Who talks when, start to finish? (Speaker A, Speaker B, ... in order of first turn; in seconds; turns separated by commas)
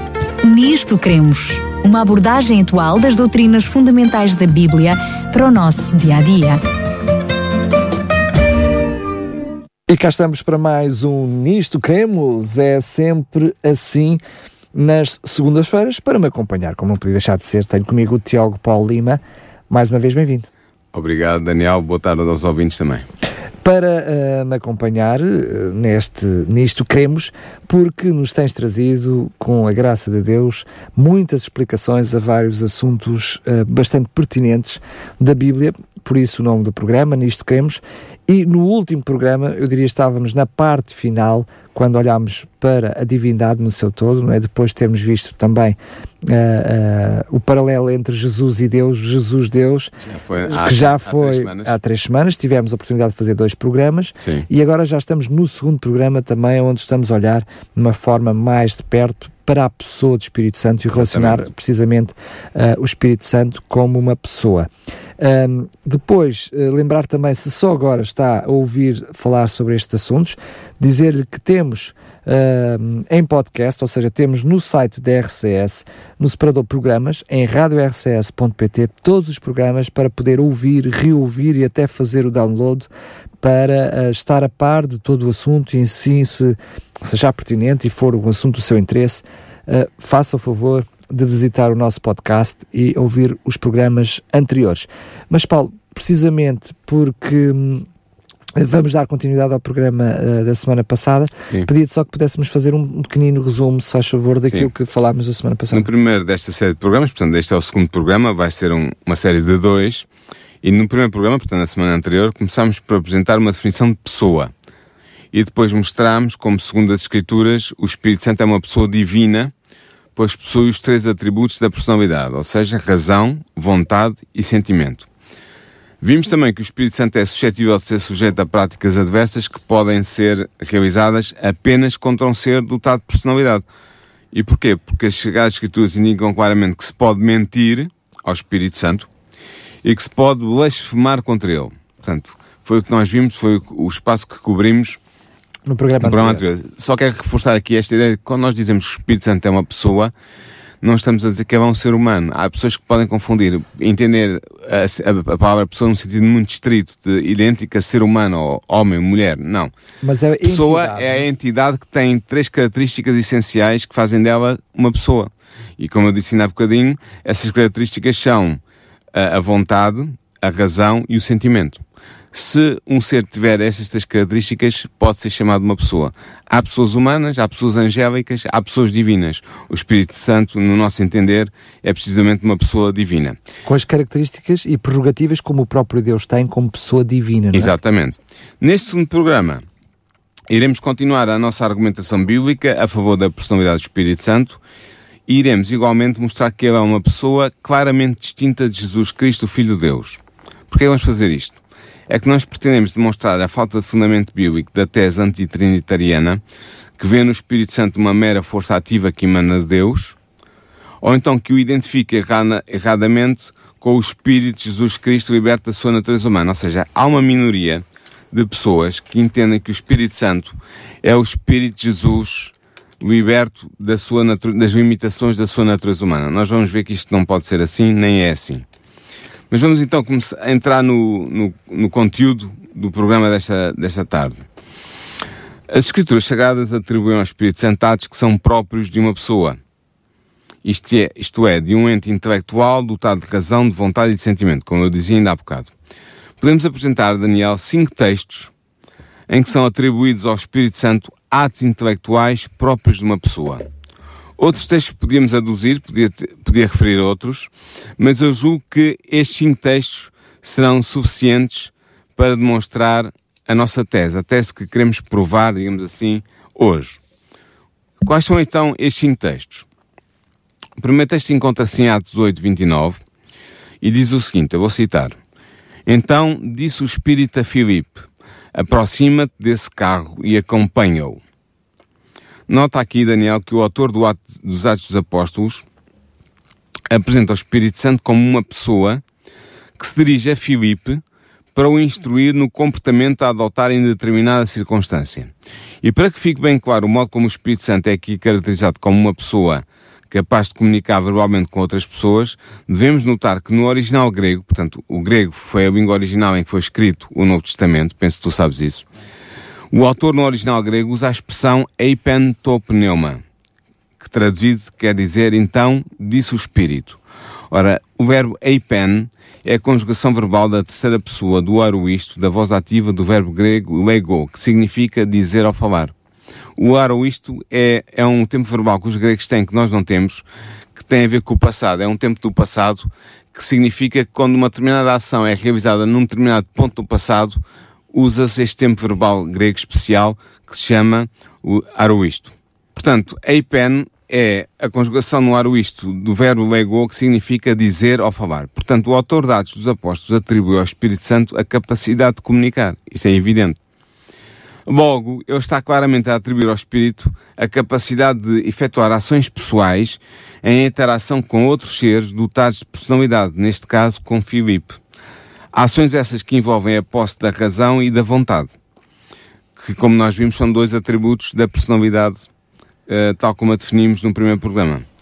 Speaker A: 0.4-6.6, Speaker B: 9.9-14.2, Speaker B: 14.7-20.5, Speaker C: 20.9-23.0, Speaker B: 23.6-49.9, Speaker C: 50.1-51.7, Speaker B: 50.4-64.7, Speaker C: 54.2-54.5, Speaker C: 60.9-61.5, Speaker B: 65.2-82.9, Speaker B: 83.4-97.9, Speaker B: 98.5-105.9, Speaker C: 105.7-110.1, Speaker C: 110.6-114.5, Speaker C: 115.3-119.5, Speaker C: 120.1-125.1, Speaker C: 126.0-133.6, Speaker C: 134.3-139.1, Speaker C: 139.8-145.0, Speaker B: 145.7-146.4, Speaker C: 146.0-150.1, Speaker C: 150.8-159.7, Speaker B: 160.0-161.2, Speaker C: 160.4-168.6, Speaker C: 169.1-183.4, Speaker B: 183.7-187.7, Speaker C: 187.5-189.6, Speaker C: 190.5-194.6, Speaker C: 195.3-206.4, Speaker C: 207.0-210.2, Speaker C: 211.0-228.7, Speaker C: 229.5-234.4, Speaker C: 235.7-239.6, Speaker C: 240.6-245.7, Speaker C: 246.4-248.5, Speaker C: 249.3-253.6, Speaker C: 254.4-267.0, Speaker C: 268.0-269.6, Speaker C: 270.8-273.0, Speaker C: 273.8-275.2, Speaker C: 275.9-281.2, Speaker C: 282.5-285.6, Speaker C: 286.9-289.0, Speaker C: 289.8-291.0, Speaker C: 291.5-308.9, Speaker C: 309.7-313.2, Speaker C: 314.0-317.0, Speaker C: 317.5-325.9, Speaker C: 326.6-337.4, Speaker C: 337.9-353.6, Speaker C: 354.6-364.8, Speaker C: 365.5-368.5, Speaker C: 369.6-372.2, Speaker C: 372.9-374.9